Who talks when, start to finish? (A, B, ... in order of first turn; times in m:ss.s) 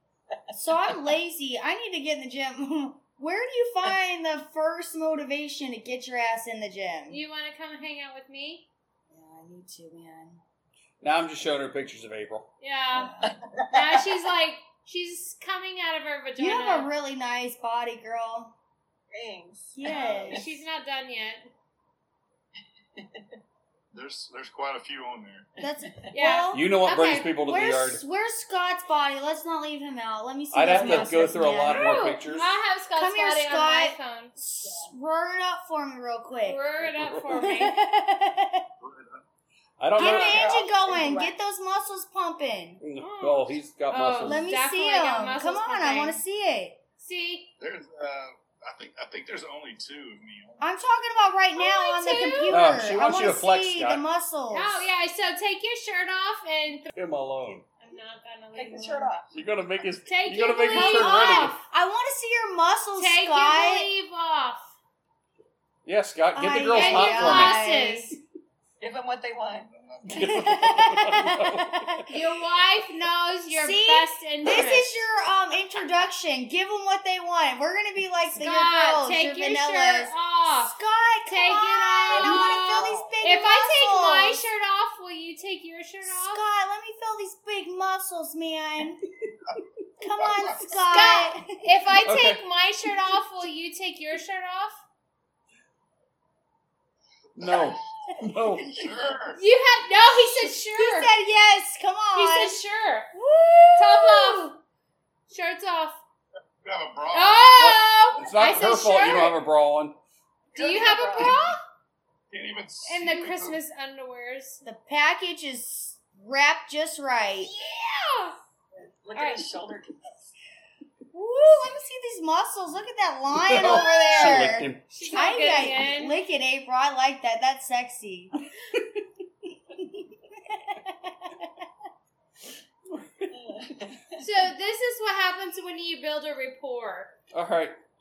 0:00.5-0:07.2 A
0:07.1-0:08.7 B
0:09.1-0:10.4 A
0:11.0-0:12.5 C
0:12.6-0:16.9 B
0:13.2-0:13.9 D
0:16.4-0:18.5 A
0:19.1-0:20.4 D
0:19.8-0:20.5 A
0:19.8-0:21.5 B
0:23.0-0:23.2 D
0:23.9-0:25.5 E
0:25.6-0:26.8 A
0:26.1-0:27.3 B
0:26.5-0:28.0 C
0:27.4-0:32.3 A
0:30.5-0:32.5 C
0:30.7-0:34.4 B
0:32.9-0:36.6 A
0:36.4-0:37.8 B
0:36.8-0:37.4 C
0:37.3-0:38.7 A
0:38.8-0:39.2 E
0:39.8-0:40.5 C
0:40.0-0:42.8 A
0:40.0-0:41.3 D
0:42.8-0:44.5 C
0:43.0-0:46.2 B
0:44.2-0:46.8 A
0:47.0-0:47.5 B
0:47.6-0:50.6 E
0:50.6-0:54.9 A
0:51.6-0:52.8 B
0:52.5-0:54.1 C
0:54.5-0:56.9 B
0:57.0-0:57.6 C
0:57.8-0:59.1 B
0:58.6-0:59.3 D
0:58.8-0:59.1 A
0:59.3-1:01.6 C
1:00.1-1:01.7 B
1:00.7-1:03.9 A
1:03.0-1:04.8 B
1:05.9-1:07.6 C
1:06.4-1:08.2 A
1:06.7-1:08.2 B
1:08.8-1:09.7 D
1:09.7-1:11.0 E
1:10.1-1:12.1 C
1:10.2-1:12.1 A
1:12.1-1:15.0 B
1:13.5-1:24.4 A
1:18.3-1:26.4 B
1:22.1-1:23.0 D
1:26.0-1:29.0 A
1:30.0-1:31.6 A
1:30.2-1:30.7 E
1:30.9-1:34.8 B
1:32.0-1:32.4 C
1:37.4-1:38.9 C
1:37.4-1:37.8 E
1:38.7-1:39.4 E
1:39.4-1:41.1 B
1:40.2-1:42.6 A
1:42.2-1:43.1 B
1:43.1-1:44.5 A
1:43.8-1:44.6 B
1:45.3-1:46.0 B
1:46.6-1:47.8 E
1:47.1-1:49.4 B
1:47.6-1:50.0 C
1:50.5-1:51.4 D
1:50.5-1:51.6 B
1:52.3-1:53.6 E
1:52.8-1:54.6 B
1:54.6-1:57.5 A
1:57.4-1:58.4 B
1:58.8-2:00.3 D
1:59.2-1:59.4 B
2:01.1-2:08.3 A
2:03.4-2:04.8 C
2:03.6-2:06.2 B
2:09.7-2:11.6 A
2:12.9-2:13.9 C
2:13.5-2:14.0 D
2:14.2-2:17.1 B
2:17.3-2:17.8 C